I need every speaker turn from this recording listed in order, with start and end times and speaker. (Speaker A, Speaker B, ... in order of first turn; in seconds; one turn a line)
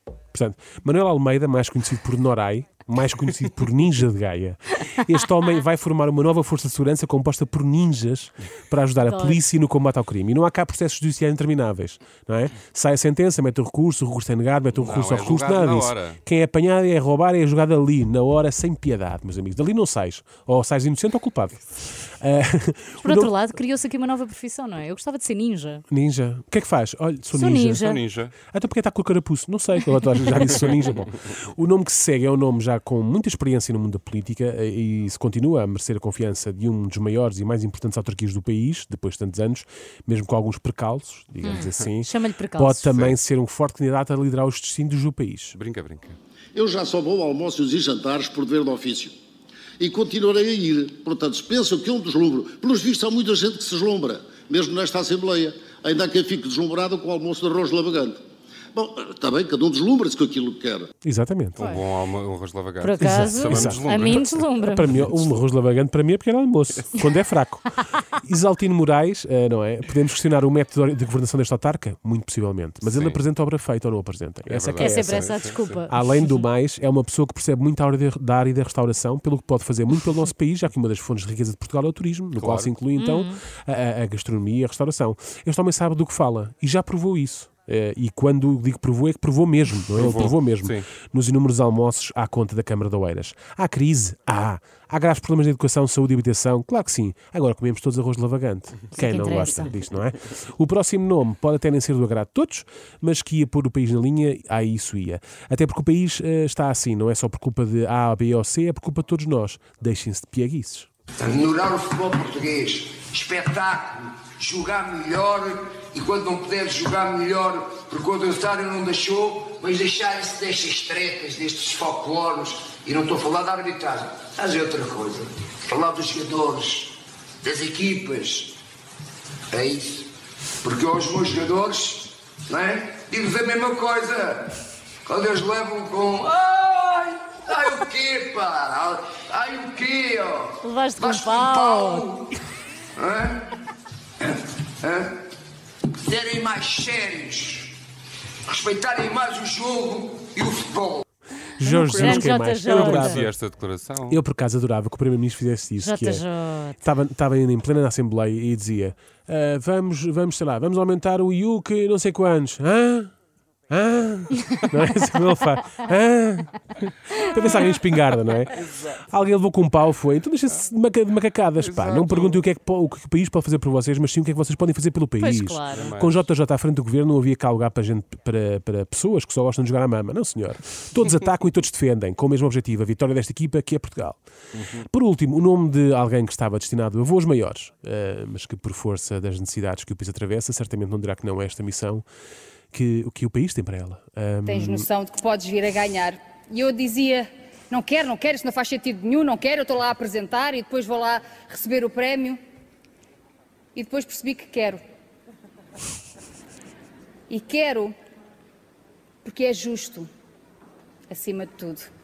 Speaker A: 0.3-23.3
Speaker B: 9.0-9.4
Speaker C: 14.7-16.2
Speaker B: 23.0-25.8
Speaker A: 25.9-27.8
Speaker B: 27.3-28.0
Speaker C: 27.8-28.3
Speaker A: 28.5-45.5
Speaker B: 41.4-42.9
Speaker C: 45.5-46.2
Speaker D: 46.5-49.1
Speaker D: 49.8-58.2
Speaker D: 58.7-60.9
Speaker A: 61.0-61.6
Speaker C: 61.5-64.4
Speaker B: 62.8-65.0
Speaker A: 63.0-67.7
Speaker A: 68.2-110.9
Speaker C: 72.8-73.2
Speaker C: 74.5-75.8
Speaker B: 74.8-76.0
Speaker C: 82.3-82.7
Speaker B: 83.0-83.4
Speaker C: 89.9-90.9
Speaker B: 98.9-99.7
Speaker E: 111.2-128.6
Speaker E: 129.5-130.1
Speaker E: 130.6-142.3
Speaker B: 140.6-142.1
Speaker E: 143.0-143.5
Speaker E: 144.2-145.1
Speaker E: 146.0-147.8
Speaker E: 148.5-151.0
Speaker A: 151.6-153.3
Speaker C: 151.6-154.2
Speaker B: 151.9-153.2
Speaker A: 154.1-156.2
Speaker B: 155.8-156.8
Speaker A: 156.8-163.1
Speaker A: 163.7-166.6
Speaker A: 167.2-184.2
Speaker C: 171.6-172.4
Speaker B: 175.2-175.9
Speaker C: 175.7-176.2
Speaker C: 184.5-184.8
Speaker A: 184.9-192.0
Speaker A: 192.7-194.9
Speaker F: 194.5-202.4
Speaker F: 203.7-204.8
Speaker F: 207.3-207.9
Speaker F: 209.2-210.1
Speaker F: 211.1-211.9